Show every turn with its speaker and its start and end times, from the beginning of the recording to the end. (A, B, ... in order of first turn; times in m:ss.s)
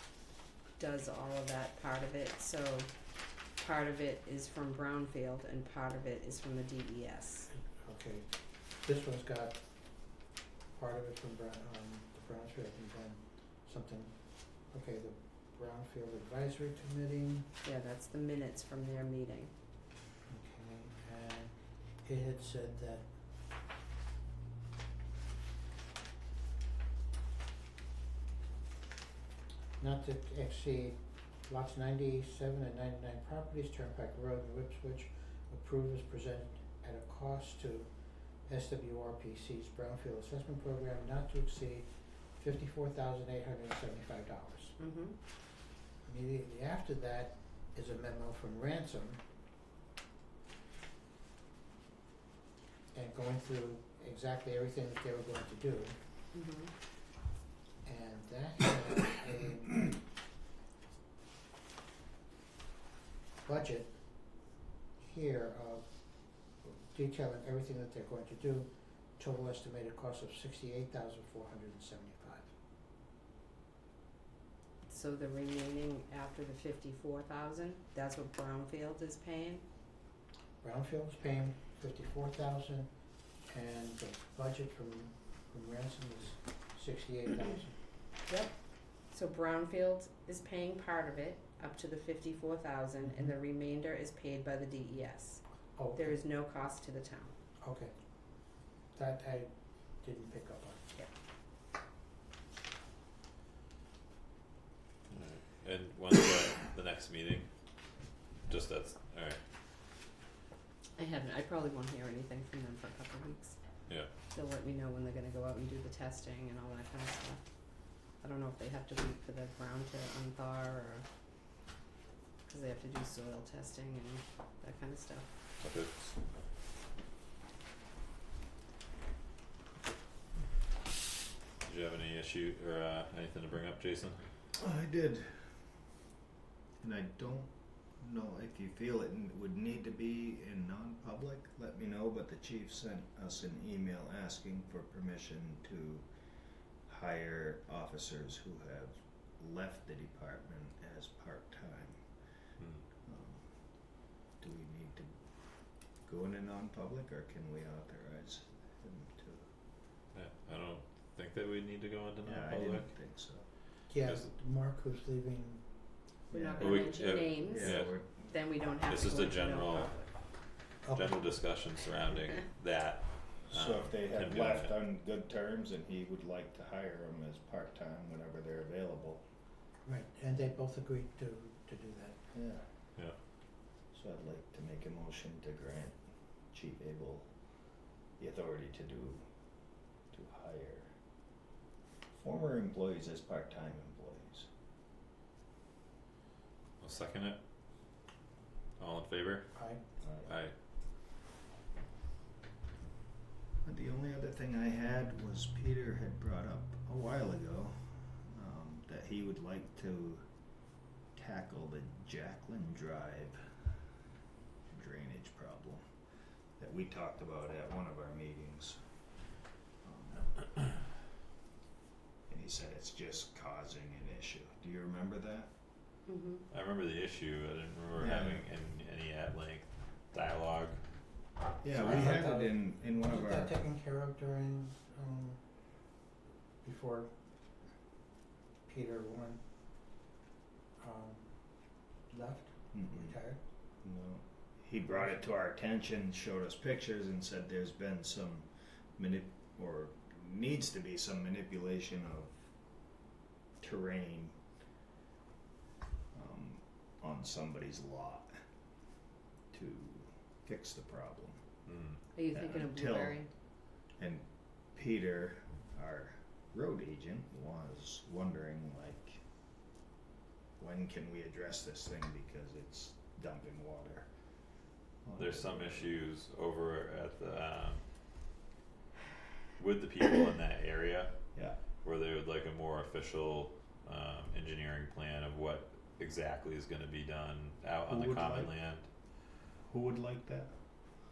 0:00.8-0:02.9 A
0:03.6-0:07.5 A
0:07.7-0:08.3 B
0:08.8-0:09.6 B
0:10.7-0:14.1 B
0:14.7-0:17.5 B
0:17.6-0:19.5 A
0:20.3-0:23.1 B
0:29.8-0:37.9 B
0:38.5-0:44.8 B
0:44.8-0:45.2 A
0:46.0-0:49.2 B
0:52.9-0:56.0 B
0:56.3-0:56.7 A
0:57.8-1:00.0 B
1:03.4-1:04.0 B
1:05.0-1:05.9 B
1:06.6-1:12.5 B
1:14.9-1:19.6 A
1:20.6-1:22.9 B
1:23.5-1:27.8 B
1:28.3-1:28.5 A
1:29.1-1:35.4 A
1:35.8-1:36.2 B
1:36.0-1:37.4 A
1:37.6-1:37.9 B
1:38.9-1:40.8 B
1:45.1-1:47.5 C
1:48.5-1:49.4 C
1:51.0-1:53.6 A
1:54.3-1:57.4 A
1:58.2-2:01.0 A
2:02.5-2:05.3 A
2:05.6-2:06.1 C
2:11.6-2:14.2 C
2:14.6-2:15.4 D
2:16.8-2:17.5 D
2:18.0-2:26.0 D
2:26.9-2:32.0 D
2:33.0-2:33.4 D
2:34.4-2:35.1 D
2:36.1-2:39.5 D
2:40.1-2:42.9 C
2:42.2-2:43.4 D
2:43.9-2:45.6 B
2:46.3-2:50.1 A
2:46.3-2:48.3 D
2:46.6-2:47.9 C
2:48.9-2:49.9 C
2:50.8-2:51.2 B
2:50.9-2:54.8 C
2:53.5-2:59.2 D
2:59.8-3:02.2 B
3:02.3-3:02.6 D
3:03.9-3:06.0 D
3:06.5-3:07.3 D
3:08.2-3:09.2 D
3:10.1-3:10.9 D
3:12.2-3:14.5 D
3:16.8-3:17.4 C
3:18.8-3:19.5 C
3:19.6-3:19.8 B
3:20.0-3:20.3 D
3:20.3-3:20.5 C
3:23.6-3:30.2 D
3:31.2-3:33.4 D
3:34.7-3:35.8 D
3:36.6-3:38.8 D
3:39.8-3:40.7 D
3:42.3-3:45.5 D
3:46.1-3:46.4 A
3:46.5-3:50.8 C
3:48.0-3:48.4 D
3:51.6-3:53.6 D
3:51.7-3:55.4 B
3:56.6-3:57.1 B
3:58.7-3:59.4 B
4:00.8-4:01.4 B
4:02.1-4:03.4 B
4:02.7-4:03.2 D
4:03.8-4:12.4 D
4:13.6-4:14.4 D
4:16.1-4:18.3 D
4:19.5-4:21.4 D
4:21.7-4:22.0 C
4:22.2-4:23.3 A
4:22.3-4:23.2 D
4:24.0-4:24.2 D
4:24.8-4:29.2 D
4:30.6-4:34.1 D
4:35.0-4:35.9 D
4:35.2-4:37.8 C
4:39.6-4:41.1 C
4:41.8-4:48.9 C
4:47.9-4:48.5 D
4:49.7-4:50.5 D